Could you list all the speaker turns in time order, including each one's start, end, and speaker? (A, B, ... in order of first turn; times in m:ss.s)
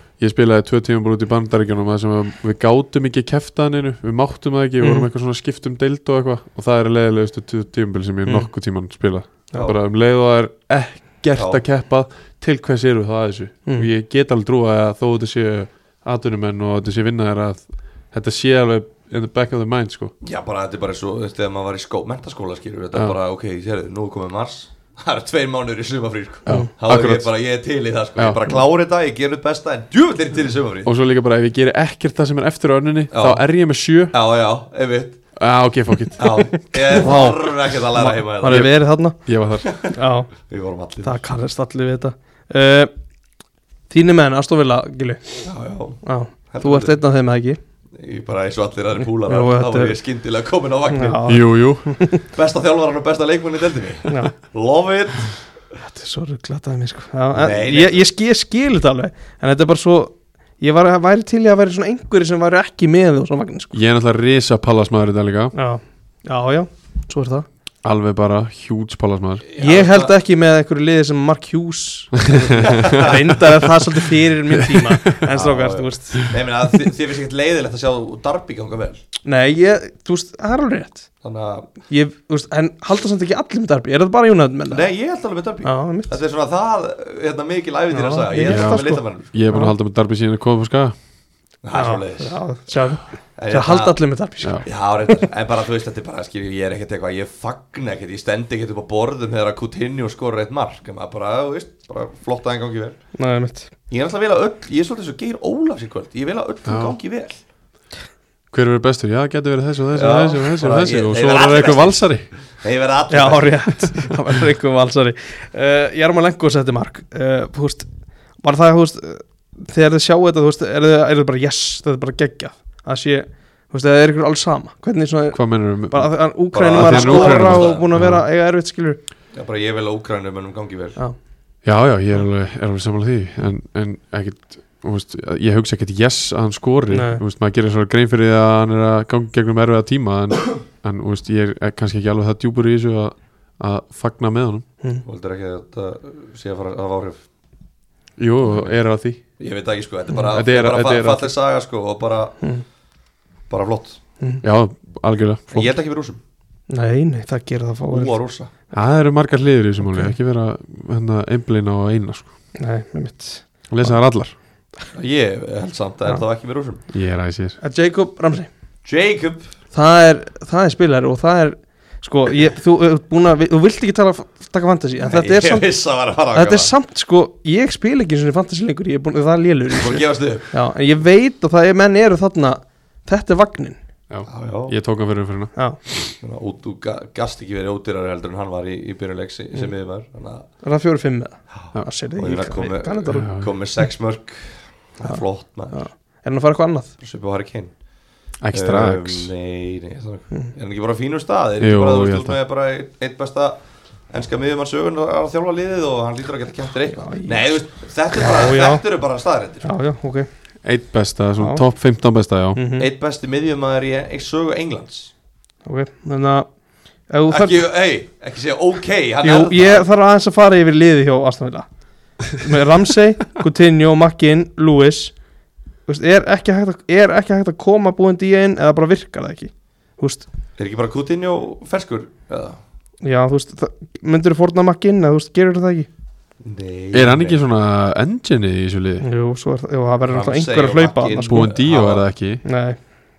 0:00.2-0:20.1 A
0:04.8-0:05.1 B
0:11.4-0:11.6 C
0:20.2-0:30.9 C
0:26.5-0:27.3 A
0:30.8-0:34.2 A
0:33.1-0:35.2 C
0:35.4-0:36.2 A
0:36.2-0:38.7 C
0:36.2-0:39.2 B
0:39.2-0:39.7 A
0:39.6-0:39.9 C
0:39.8-0:40.3 B
0:40.5-0:41.2 C
0:41.0-0:42.9 B
0:43.9-0:45.3 B
0:45.4-0:47.0 C
0:46.0-0:47.6 B
0:48.0-0:51.2 C
0:49.3-0:50.0 B
0:50.9-0:52.2 B
0:51.3-0:52.0 A
0:52.3-0:55.5 C
0:54.1-0:54.3 B
0:55.8-1:03.8 B
0:57.4-0:58.0 C
1:03.7-1:05.5 A
1:05.5-1:07.5 B
1:07.8-1:09.4 A
1:09.5-1:10.1 C
1:09.6-1:16.3 B
1:12.2-1:13.0 A
1:12.6-1:13.2 C
1:14.6-1:15.1 A
1:15.3-1:19.0 C
1:19.2-1:21.1 B
1:21.2-1:21.7 C
1:21.9-1:24.9 B
1:24.7-1:29.4 C
1:25.6-1:26.2 B
1:27.9-1:29.7 B
1:28.5-1:31.0 A
1:31.6-1:32.4 C
1:31.7-1:34.7 B
1:33.4-1:34.0 C
1:34.6-1:43.0 C
1:43.2-1:43.7 B
1:43.9-1:47.4 C
1:46.7-1:47.0 A
1:48.5-1:52.3 A
1:50.0-1:54.0 C
1:53.1-1:57.9 B
1:58.4-2:09.0 B
2:05.3-2:06.2 A
2:06.5-2:07.9 C
2:06.7-2:08.2 A
2:09.3-2:11.0 C
2:11.6-2:24.6 A
2:16.9-2:17.2 B
2:25.0-2:27.2 C
2:28.2-2:29.2 A
2:29.4-2:32.4 C
2:30.3-2:31.3 A
2:33.5-2:34.0 C
2:34.4-2:35.7 A
2:35.5-2:36.2 C
2:36.7-2:38.1 B
2:37.9-2:38.5 C
2:38.7-2:42.3 A
2:39.8-2:40.2 B
2:42.6-2:43.4 B
2:43.7-2:44.3 A
2:44.9-2:46.8 C
2:46.9-2:47.6 A
2:47.6-2:48.5 B
2:48.8-2:49.5 C
2:49.7-2:55.7 B
2:55.1-2:56.7 C
2:56.3-3:03.8 B
2:59.7-3:00.5 C
3:04.1-3:05.5 A
3:04.3-3:04.8 C
3:06.2-3:10.5 C
3:10.6-3:13.3 B
3:11.5-3:15.9 C
3:13.1-3:13.5 A
3:15.0-3:16.9 B
3:17.0-3:17.7 C
3:18.4-3:19.3 A
3:18.5-3:23.6 C
3:21.6-3:22.4 A
3:24.1-3:29.7 C
3:27.0-3:27.5 B
3:28.1-3:28.8 B
3:29.6-3:30.3 B
3:30.6-3:32.6 A
3:31.4-3:31.6 B
3:32.6-3:32.9 B
3:32.8-3:35.1 C
3:35.6-3:36.5 B
3:37.1-3:37.6 B
3:37.3-3:39.9 C
3:39.2-3:41.7 B
3:42.3-3:45.2 B
3:45.9-3:50.2 B
3:50.6-3:52.6 C
3:53.0-3:55.9 B
3:56.4-3:57.4 C
3:56.9-3:59.0 A
3:59.0-4:01.5 B
4:00.1-4:02.1 C
4:01.2-4:02.4 A
4:02.4-4:02.8 B